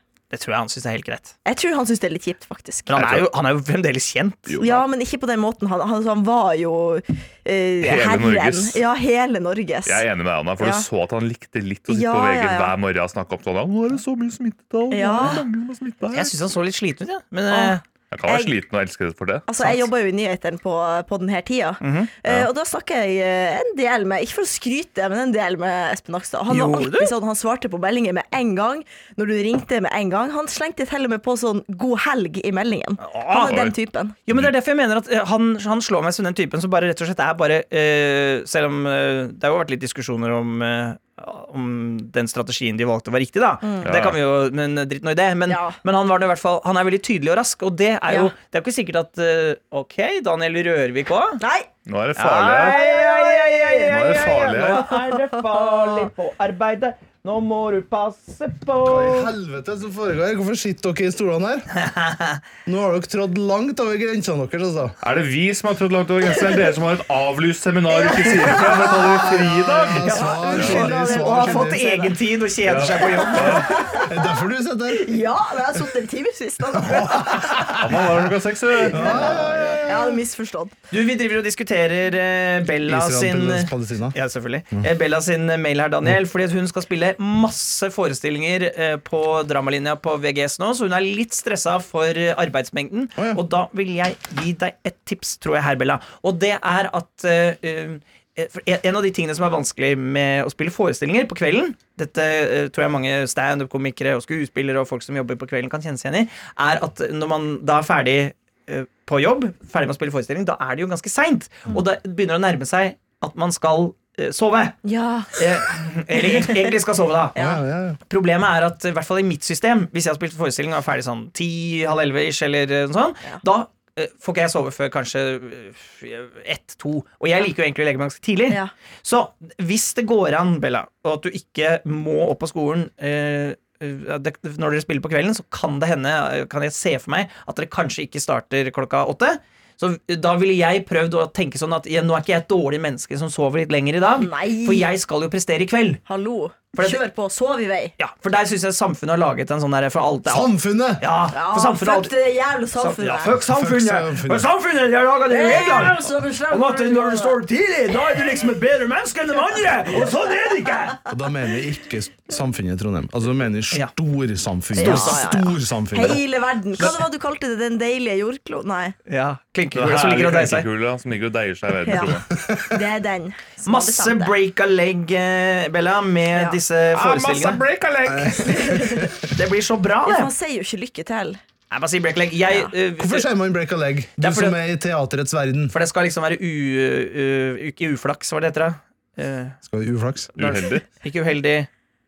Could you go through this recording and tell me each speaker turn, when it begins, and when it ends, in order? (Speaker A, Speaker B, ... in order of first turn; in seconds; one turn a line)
Speaker A: 0.3-1.3
Speaker B: 1.4-3.0
Speaker A: 2.9-4.6
Speaker C: 2.9-3.2
Speaker C: 4.5-4.8
Speaker B: 4.6-10.0
Speaker C: 7.8-8.8
Speaker C: 9.8-16.3
Speaker B: 10.6-10.8
Speaker B: 11.9-12.7
Speaker B: 14.9-15.4
Speaker A: 16.1-17.8
Speaker B: 17.5-18.5
Speaker C: 18.1-19.5
Speaker B: 19.5-34.1
Speaker A: 21.8-22.1
Speaker A: 26.5-27.1
Speaker A: 33.0-33.7
Speaker C: 33.5-33.7
Speaker A: 34.3-51.4
Speaker C: 43.8-44.2
Speaker B: 45.5-45.8
Speaker B: 51.4-51.7
Speaker C: 51.9-52.8
Speaker A: 52.1-59.3
Speaker B: 52.5-56.1
Speaker C: 53.9-54.8
Speaker D: 58.8-61.7
Speaker A: 61.7-62.4
Speaker D: 62.6-65.0
Speaker C: 65.0-70.9
Speaker B: 67.9-69.2
Speaker D: 68.6-72.1
Speaker A: 70.0-73.8
Speaker B: 70.2-72.1
Speaker C: 72.6-73.7
Speaker B: 72.9-74.3
Speaker D: 73.9-75.1
Speaker B: 74.9-77.8
Speaker D: 76.7-78.1
Speaker C: 77.7-79.4
Speaker B: 78.8-80.7
Speaker D: 78.9-80.2
Speaker A: 80.9-114.8
Speaker D: 82.8-84.2
Speaker B: 114.8-115.4
Speaker A: 115.3-117.3
Speaker B: 116.1-116.7
Speaker B: 117.3-117.6
Speaker D: 117.3-118.0
Speaker A: 118.1-146.0
Speaker B: 144.2-144.9
Speaker B: 146.0-147.9
Speaker A: 146.7-147.0
Speaker A: 148.0-152.1
Speaker D: 150.2-151.0
Speaker B: 151.3-153.3
Speaker A: 152.8-161.0
Speaker D: 153.3-154.5
Speaker B: 155.3-157.3
Speaker D: 161.1-166.2
Speaker B: 164.7-168.9
Speaker A: 164.8-165.2
Speaker A: 169.1-170.7
Speaker C: 169.7-172.2
Speaker B: 171.8-174.3
Speaker D: 172.4-172.7
Speaker A: 173.6-177.6
Speaker C: 176.9-178.4
Speaker D: 178.1-179.3
Speaker B: 178.4-179.1
Speaker A: 179.2-180.3
Speaker B: 180.0-181.4
Speaker A: 181.7-183.3
Speaker D: 183.0-185.7
Speaker A: 184.2-184.6
Speaker A: 185.7-189.6
Speaker D: 189.6-190.3
Speaker A: 190.3-191.7
Speaker C: 190.4-190.8